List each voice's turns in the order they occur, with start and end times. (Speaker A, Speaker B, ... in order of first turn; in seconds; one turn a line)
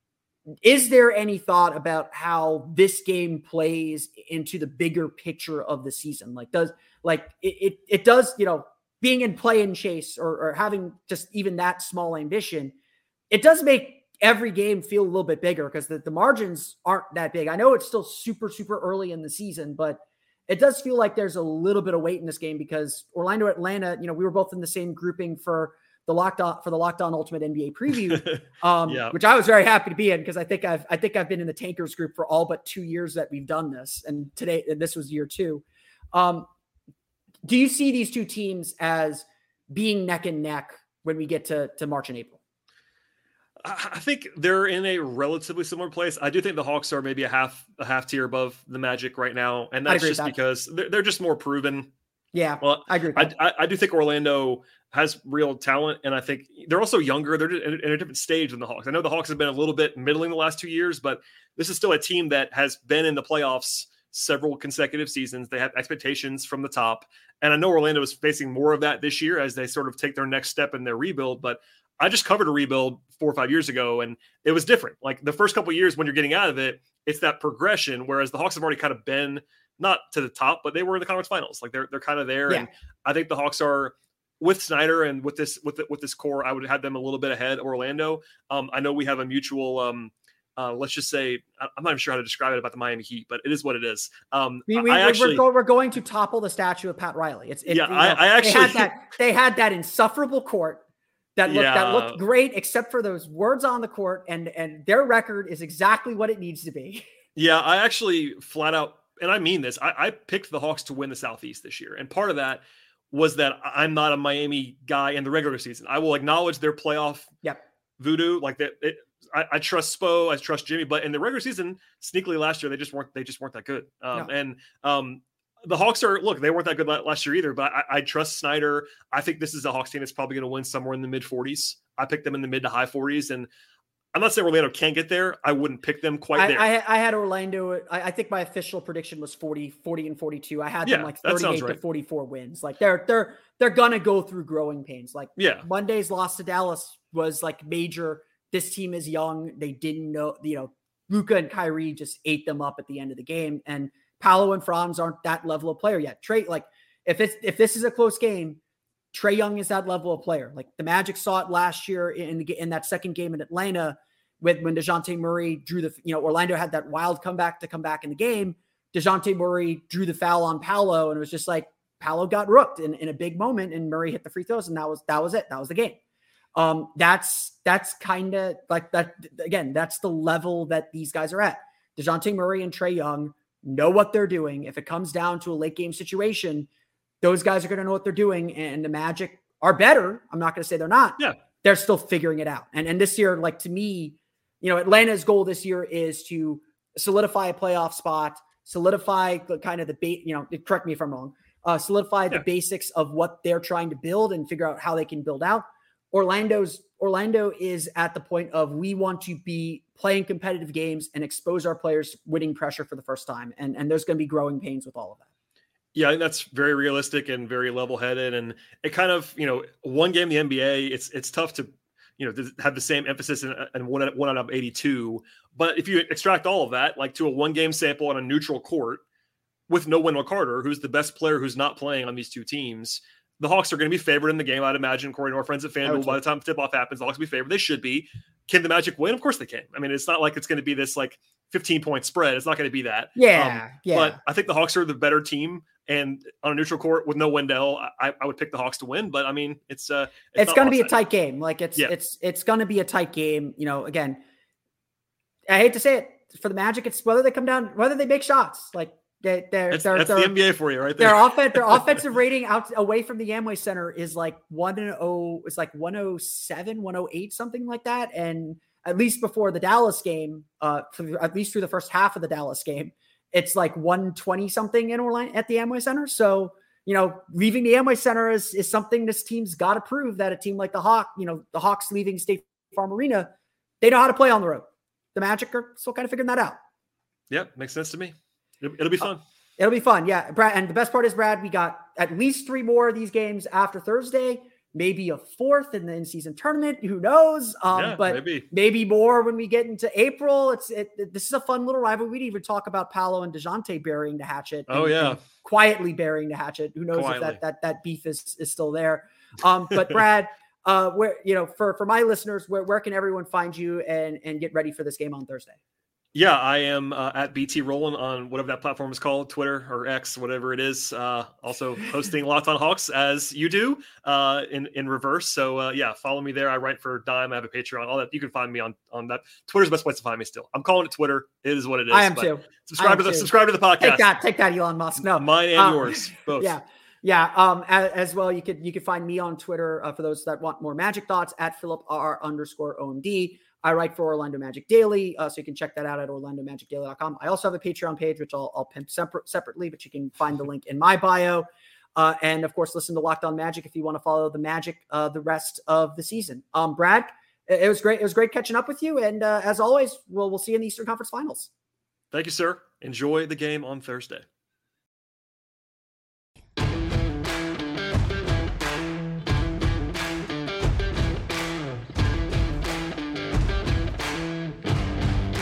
Speaker A: 0.6-12.7
Speaker A: 13.3-36.5
Speaker B: 28.1-29.1
Speaker A: 37.4-42.4
Speaker B: 43.6-51.9
Speaker A: 49.9-50.3
Speaker A: 52.3-53.3
Speaker B: 52.6-95.4
Speaker A: 94.7-100.8
Speaker B: 97.7-98.9
Speaker A: 101.4-107.0
Speaker B: 101.5-102.2
Speaker B: 107.3-117.3
Speaker B: 118.0-133.5
Speaker B: 134.1-136.7
Speaker A: 136.3-158.6
Speaker B: 140.8-141.8
Speaker B: 145.4-145.7
Speaker A: 159.1-176.0
Speaker A: 176.6-186.7
Speaker A: 187.2-215.2
Speaker B: 215.9-229.0
Speaker B: 229.7-250.9
Speaker A: 235.8-236.2
Speaker A: 243.2-244.2
Speaker A: 250.3-254.2
Speaker A: 255.5-260.3
Speaker B: 259.7-262.0
Speaker A: 261.0-286.6
Speaker B: 287.3-289.2
Speaker A: 289.6-315.6
Speaker B: 297.7-298.4
Speaker B: 304.7-305.2
Speaker B: 306.9-307.4
Speaker B: 316.1-334.1
Speaker A: 331.9-361.5
Speaker B: 335.2-336.5
Speaker B: 362.1-364.2